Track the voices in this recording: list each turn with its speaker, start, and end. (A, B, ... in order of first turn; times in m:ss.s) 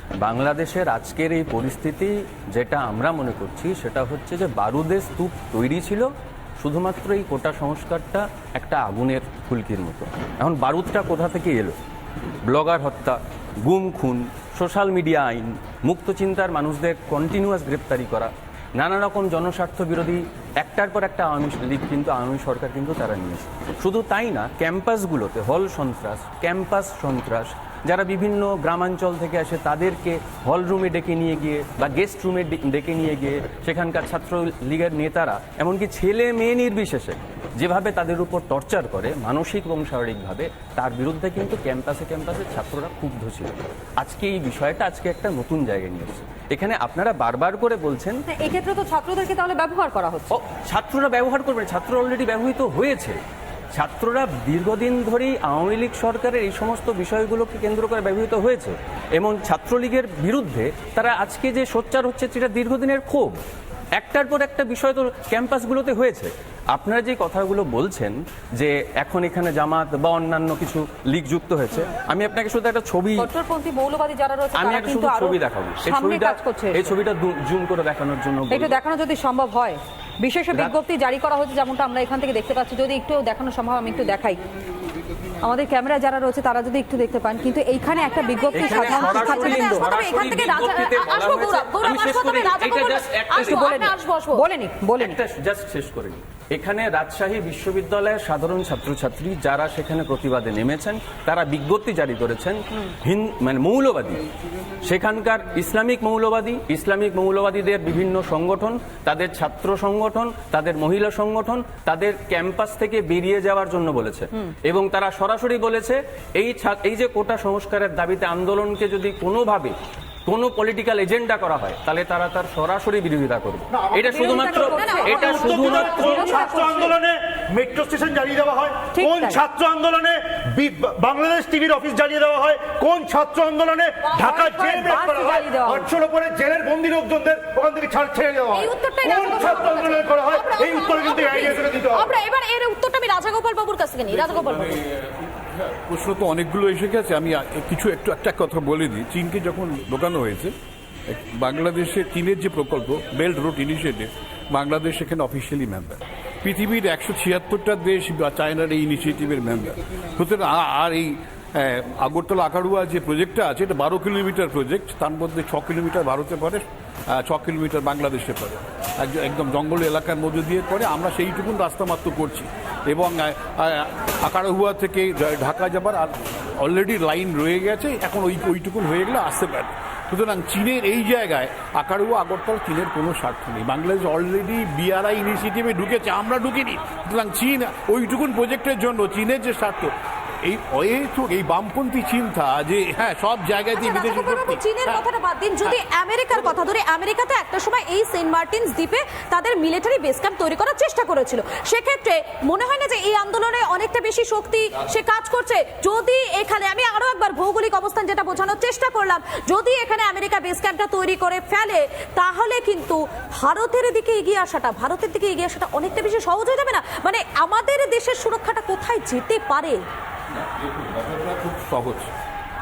0:00.2-0:06.1 A
0:06.6-0:11.8 A
0:12.4-0:48.2 A
0:48.4-0:50.1 B
0:50.3-0:53.2 A
0:53.7-1:03.4 A
1:04.0-1:13.3 A
1:13.5-1:14.5 B
1:14.5-1:18.8 A
1:18.8-1:19.8 B
1:20.3-1:24.2 B
1:20.5-1:20.8 A
1:25.6-1:26.6 B
1:28.1-1:34.5 C
1:28.5-1:33.9 A
1:34.9-1:44.2 A
1:44.8-2:06.6 A
2:03.8-2:22.1 D
2:04.5-2:06.9 C
2:14.0-2:14.4 C
2:14.8-2:15.7 B
2:18.5-2:24.8 C
2:24.1-2:30.5 E
2:31.1-3:15.0 E
3:13.7-3:39.8 C
3:40.4-3:42.1 E